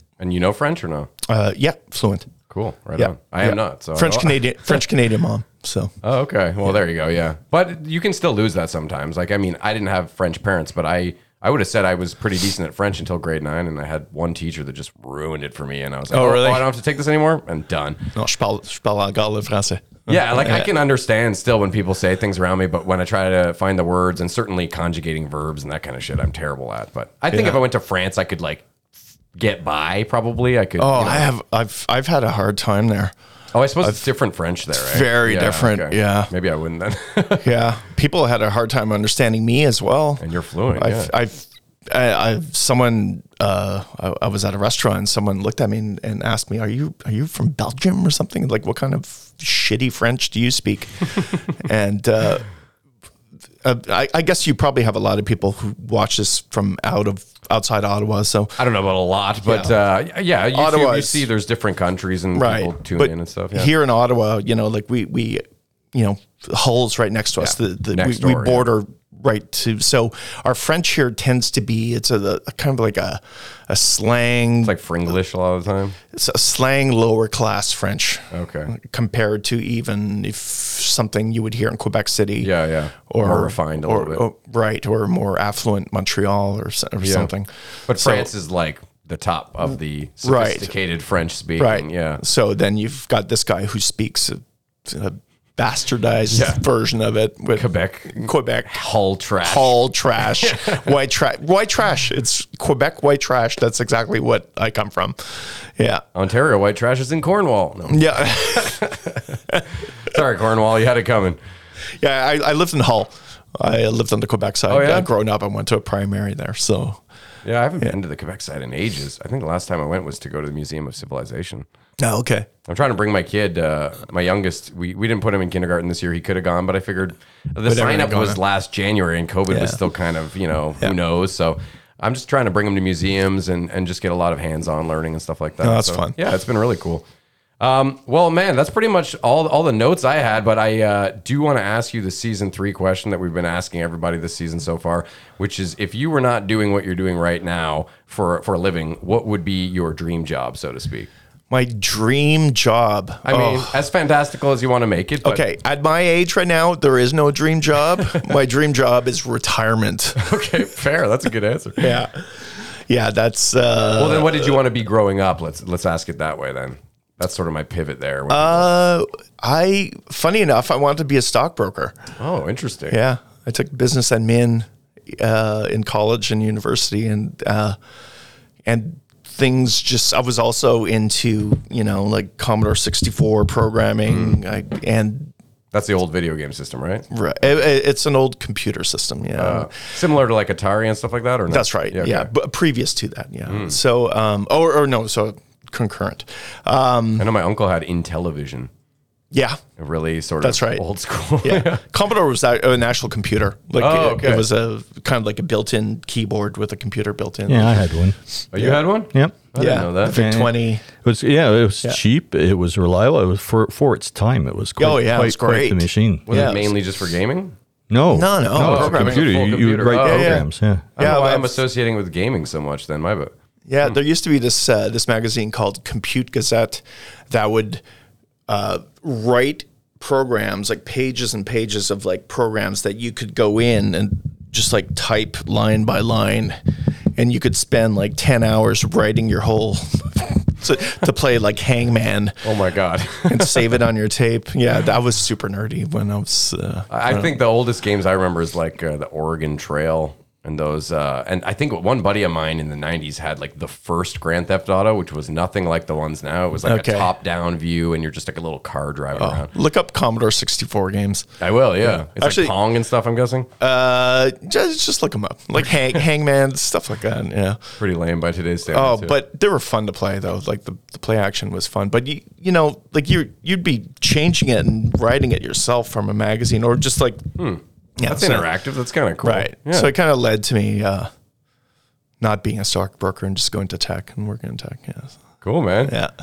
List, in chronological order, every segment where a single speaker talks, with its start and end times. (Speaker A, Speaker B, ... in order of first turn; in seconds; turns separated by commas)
Speaker A: 0.2-1.1, Speaker B: 1.2-2.3, Speaker A: 2.5-4.8, Speaker B: 3.0-5.9, Speaker A: 6.0-18.1, Speaker B: 16.1-16.7, Speaker B: 18.1-20.7, Speaker A: 20.1-28.6, Speaker B: 27.3-27.6, Speaker A: 29.4-31.3, Speaker B: 30.8-33.1, Speaker A: 33.5-37.6, Speaker B: 34.7-36.3, Speaker B: 37.4-40.2, Speaker A: 40.2-41.1, Speaker B: 40.7-52.4, Speaker B: 53.6-58.6, Speaker A: 58.6-63.7, Speaker B: 59.5-59.7, Speaker B: 60.5-61.2, Speaker B: 62.3-74.7, Speaker A: 67.4-68.7, Speaker A: 74.6-76.0, Speaker B: 76.1-82.5, Speaker A: 78.3-78.7, Speaker A: 82.4-84.2, Speaker B: 83.1-88.3, Speaker A: 87.0-87.3, Speaker A: 87.9-92.2, Speaker B: 90.2-90.7, Speaker B: 91.6-98.8, Speaker A: 96.3-96.6, Speaker A: 97.5-100.9, Speaker B: 99.4-106.0, Speaker A: 106.1-111.4, Speaker B: 107.9-108.8, Speaker B: 112.0-117.0, Speaker A: 114.7-115.1, Speaker A: 117.4-121.7, Speaker B: 122.0-122.5, Speaker A: 122.7-137.0, Speaker B: 127.7-128.4, Speaker B: 129.5-129.8, Speaker B: 135.6-136.2, Speaker A: 137.6-151.1, Speaker B: 151.5-153.8, Speaker A: 153.2-155.4, Speaker B: 155.2-160.2, Speaker A: 158.0-158.2, Speaker A: 160.2-162.0, Speaker B: 161.8-164.6, Speaker A: 163.9-168.7, Speaker B: 168.3-172.0, Speaker A: 172.2-173.0, Speaker B: 172.9-177.8, Speaker B: 178.6-185.3, Speaker A: 184.1-184.4, Speaker A: 185.7-187.1, Speaker B: 187.1-189.7, Speaker A: 189.4-192.3, Speaker B: 191.5-197.3, Speaker A: 193.5-193.8, Speaker A: 197.2-198.7, Speaker B: 199.3-199.6, Speaker A: 199.8-201.8, Speaker B: 200.4-200.8, Speaker B: 201.4-207.9, Speaker A: 203.8-204.5, Speaker C: 207.5-208.2, Speaker A: 208.5-210.2, Speaker B: 208.6-208.8, Speaker C: 209.1-209.4, Speaker B: 209.6-210.8, Speaker C: 210.0-216.6, Speaker B: 214.8-216.7, Speaker A: 216.3-217.6, Speaker C: 217.9-221.0, Speaker B: 218.1-219.3, Speaker A: 218.6-220.4, Speaker B: 220.0-221.6, Speaker A: 220.9-223.3, Speaker B: 223.7-227.8, Speaker B: 228.5-236.6, Speaker B: 237.2-242.4, Speaker A: 242.4-243.8, Speaker B: 243.2-247.4, Speaker A: 246.9-259.5, Speaker B: 256.6-257.1, Speaker B: 259.1-262.6, Speaker A: 261.4-263.5, Speaker B: 263.6-267.6, Speaker A: 267.8-269.1, Speaker B: 268.7-277.2, Speaker A: 277.4-279.9, Speaker B: 278.0-278.5, Speaker B: 279.2-281.1, Speaker B: 282.2-285.2, Speaker A: 285.4-285.9, Speaker B: 285.9-286.1